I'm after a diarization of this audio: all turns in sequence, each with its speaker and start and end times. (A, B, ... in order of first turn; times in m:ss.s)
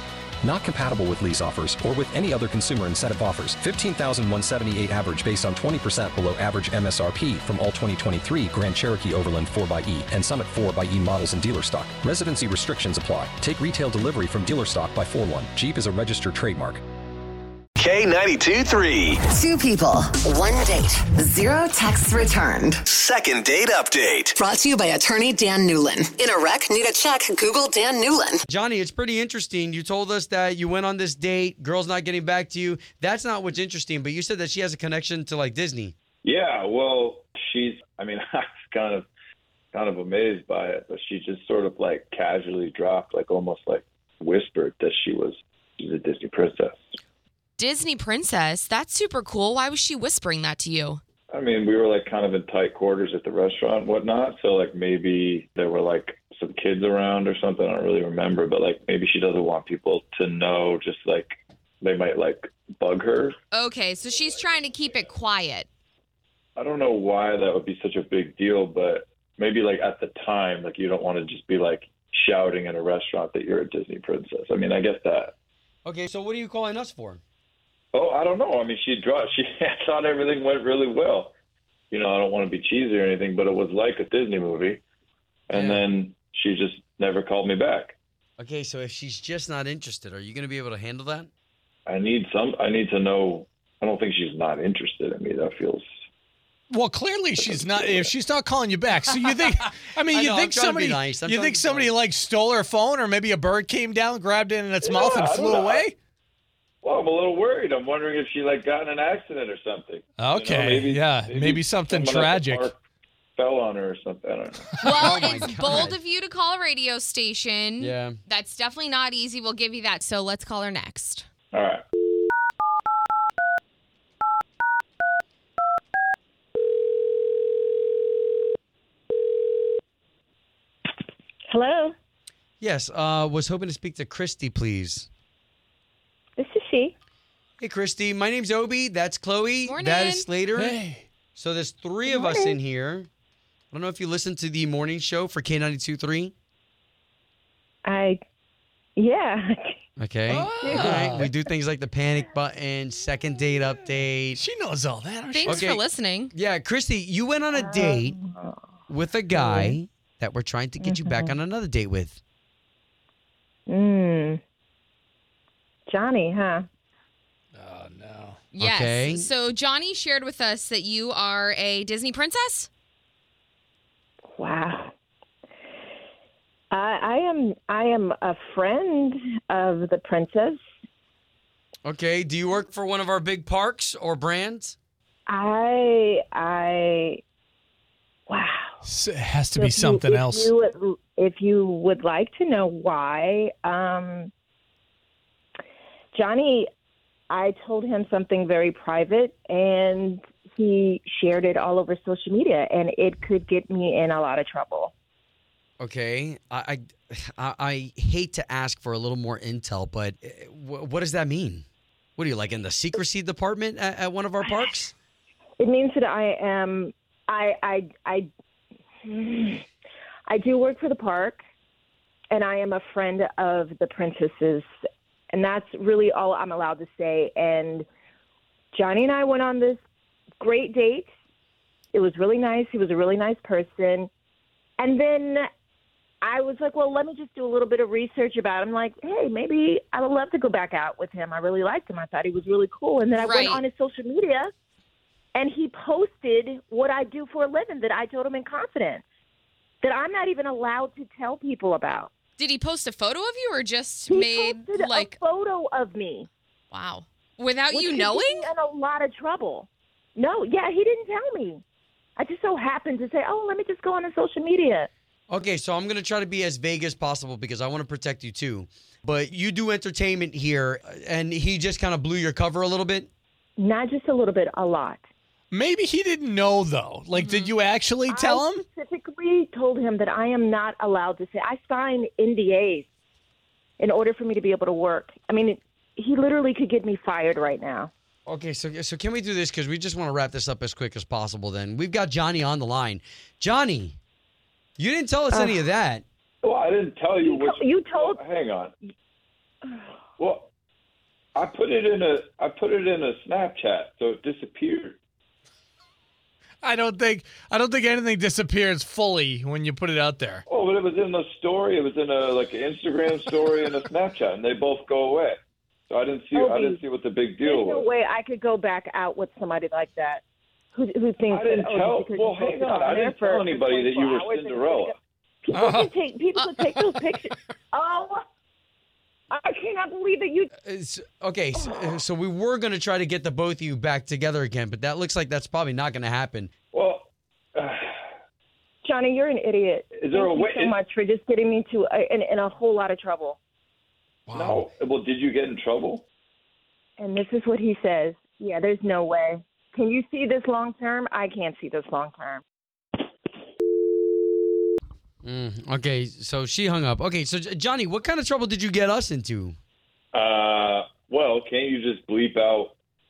0:00.4-0:16.8 A
0:17.8-0:19.2 B
0:19.2-0:22.8 C
0:22.9-0:24.3 B
0:24.3-0:28.4 C
0:28.5-0:35.9 D
0:36.2-0:39.1 E
0:39.7-0:46.8 E
0:47.6-0:51.0 F
0:51.3-1:03.4 E
1:03.5-1:05.7 F
1:06.6-1:15.3 E
1:15.8-1:17.2 D
1:17.9-1:21.3 E
1:21.9-1:24.8 E
1:25.5-1:28.0 E
1:25.5-1:25.8 D
1:28.4-1:31.3 D
1:31.9-1:35.8 E
1:36.7-1:45.9 G
1:37.4-1:38.1 E
1:39.0-1:41.9 D
1:44.8-1:45.8 E
1:46.8-1:52.8 E
1:50.2-1:52.7 G
1:53.4-1:54.7 E
1:54.8-2:01.2 F
1:54.8-1:56.0 D
1:57.8-1:58.2 D
2:01.5-2:01.8 E
2:11.5-2:11.9 H
2:12.6-2:15.1 D
2:16.4-2:16.9 H
2:17.6-2:20.8 D
2:19.6-2:20.3 F
2:20.5-2:21.1 G
2:21.3-2:23.1 D
2:22.0-2:22.6 H
2:23.7-2:26.3 D
2:27.8-2:28.2 H
2:29.0-2:29.8 H
2:30.0-2:34.4 D
2:30.3-2:31.3 G
2:30.5-2:31.3 H
2:34.3-2:35.7 G
2:35.3-2:36.3 F
2:35.4-2:38.2 D
2:37.5-2:38.6 H
2:38.9-2:42.2 D
2:39.3-2:39.8 H
2:40.8-2:41.4 H
2:43.7-2:44.4 H
2:45.9-2:46.6 H
2:47.6-2:48.4 G
2:48.5-2:52.7 F
2:48.6-2:49.3 D
2:54.3-2:54.9 H
2:56.7-3:00.6 H
3:01.8-3:04.8 D
3:05.3-3:07.2 H
3:08.3-3:08.8 H
3:08.8-3:10.5 G
3:09.5-3:14.3 H
3:16.1-3:16.7 H
3:17.3-3:24.9 H
3:25.8-3:31.6 D
3:32.2-3:34.9 D
3:35.6-3:38.3 H
3:39.0-3:39.6 H
3:40.3-3:41.4 H
3:42.3-3:44.6 H
3:45.3-3:47.8 H
3:48.7-3:49.8 H
3:50.4-3:51.1 H
3:51.9-3:54.1 H
3:54.8-3:55.4 H
3:56.2-4:04.5 H
4:03.1-4:03.6 F
4:05.3-4:09.0 H
4:09.8-4:12.1 H
4:12.4-4:15.2 F
4:14.1-4:16.3 H
4:16.7-4:18.5 F
4:17.7-4:21.6 H
4:22.2-4:24.9 H
4:25.3-4:33.1 D
4:33.6-4:35.0 H
4:35.5-4:38.6 G
4:37.1-4:37.6 F
4:38.1-4:42.9 H
4:43.8-4:47.9 H
4:48.3-4:54.0 D
4:54.8-4:56.0 D
4:55.3-4:55.7 H
4:56.4-4:58.7 E
4:57.2-4:58.2 H
5:00.2-5:00.5 E
5:01.3-5:05.0 E
5:06.6-5:10.4 G
5:10.5-5:15.4 E
5:15.9-5:17.8 E
5:16.3-5:16.8 H
5:17.4-5:20.2 H
5:20.7-5:28.2 H
5:21.3-5:24.9 E
5:29.3-5:30.5 H
5:30.6-5:36.5 D
5:31.6-5:31.9 H
5:36.7-5:38.1 E
5:38.8-5:43.4 H
5:39.9-5:40.7 E
5:44.3-5:44.6 G
5:44.3-5:46.0 E
5:47.0-5:52.4 H
5:55.2-5:59.6 D
6:00.1-6:02.7 E